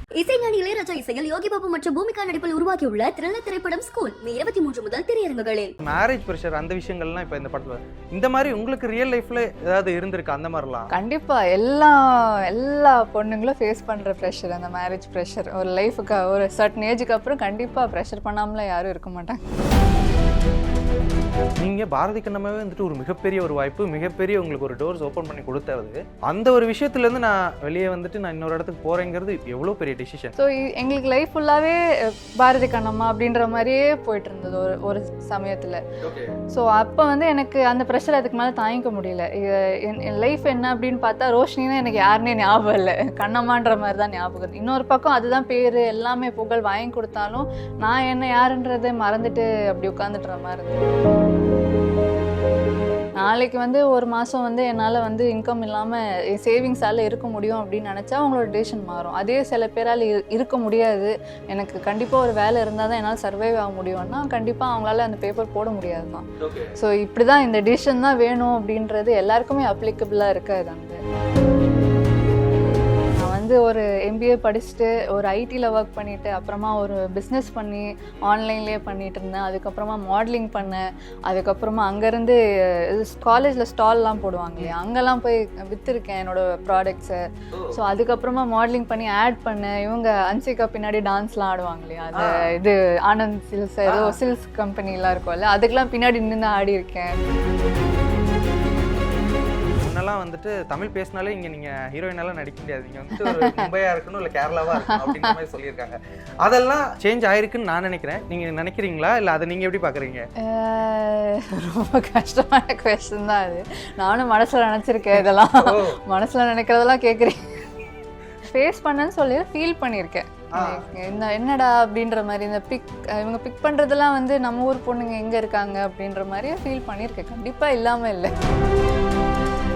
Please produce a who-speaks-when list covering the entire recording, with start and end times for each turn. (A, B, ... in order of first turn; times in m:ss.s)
0:00.2-0:05.7 A
0:05.8-0:10.9 B
0:10.9-0:19.4 C
0:21.6-0:30.3 B
0:30.4-0:35.8 C
0:36.0-0:36.4 B
0:36.5-0:50.8 C
0:53.2-1:06.3 C
1:06.4-1:06.8 B
1:06.8-1:11.0 C
1:13.2-1:37.2 C
1:27.5-1:27.8 B
1:32.1-1:32.5 B
1:33.9-1:34.2 B
1:39.8-1:50.2 B
1:43.1-1:43.7 C
1:44.7-1:45.4 C
1:50.4-1:57.5 C
1:55.1-1:56.0 B
1:58.4-2:08.3 C
2:00.5-2:00.8 B